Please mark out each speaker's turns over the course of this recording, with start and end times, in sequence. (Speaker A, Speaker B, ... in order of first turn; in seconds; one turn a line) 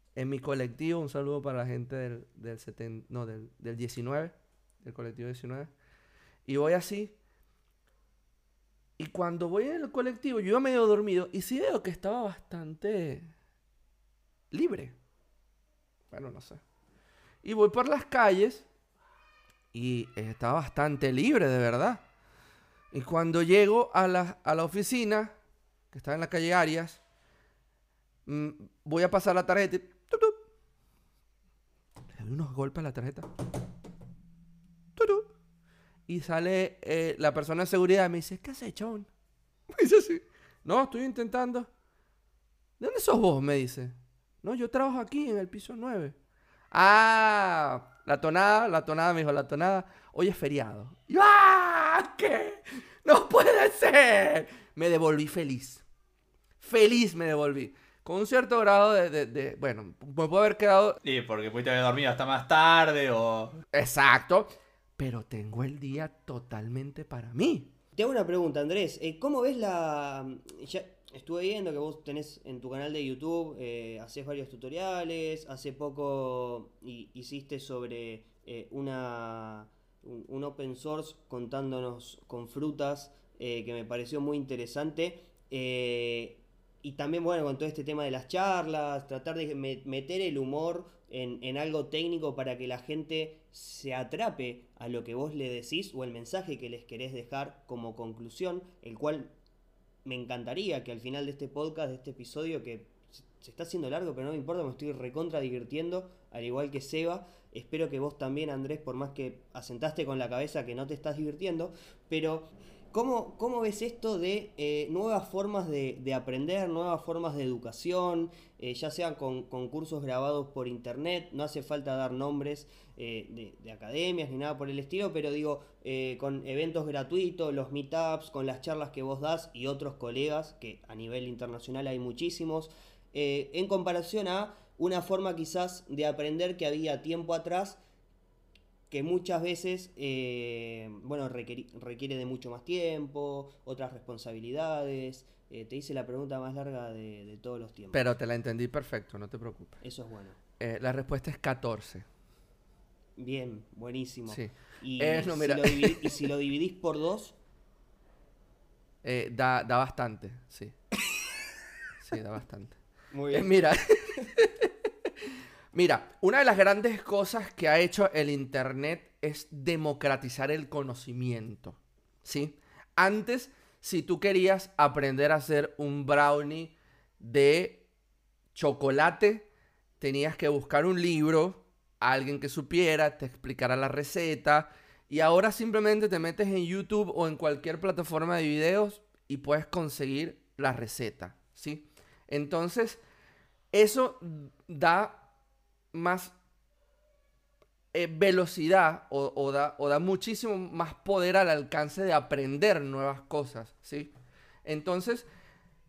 Speaker A: 0.1-5.7
Speaker A: 6.5-7.2
Speaker A: 9.0-13.3
Speaker A: 14.5-15.0
Speaker A: 16.1-16.6
Speaker A: 17.4-18.7
Speaker A: 19.7-22.0
Speaker A: 22.9-25.3
Speaker A: 25.9-27.0
Speaker A: 28.2-30.4
Speaker A: 32.1-33.3
Speaker A: 35.0-35.3
Speaker A: 36.1-39.1
Speaker A: 39.7-41.7
Speaker A: 42.8-46.1
Speaker A: 46.7-55.8
Speaker A: 56.6-61.0
Speaker B: 61.0-63.6
Speaker A: 63.7-67.7
Speaker C: 67.9-99.3
Speaker C: 100.0-137.8
Speaker C: 138.9-148.1
Speaker A: 147.9-149.8
Speaker C: 149.8-150.4
Speaker A: 150.6-152.1
Speaker C: 153.2-157.3
Speaker A: 154.3-156.2
Speaker A: 159.0-160.8
Speaker A: 162.0-162.8
Speaker C: 163.1-163.5
Speaker A: 163.3-164.7
Speaker A: 165.7-177.8
Speaker A: 178.5-179.5
Speaker A: 180.0-193.0
Speaker A: 193.7-195.2
Speaker A: 195.9-196.3
Speaker A: 197.9-204.1
Speaker A: 204.6-205.3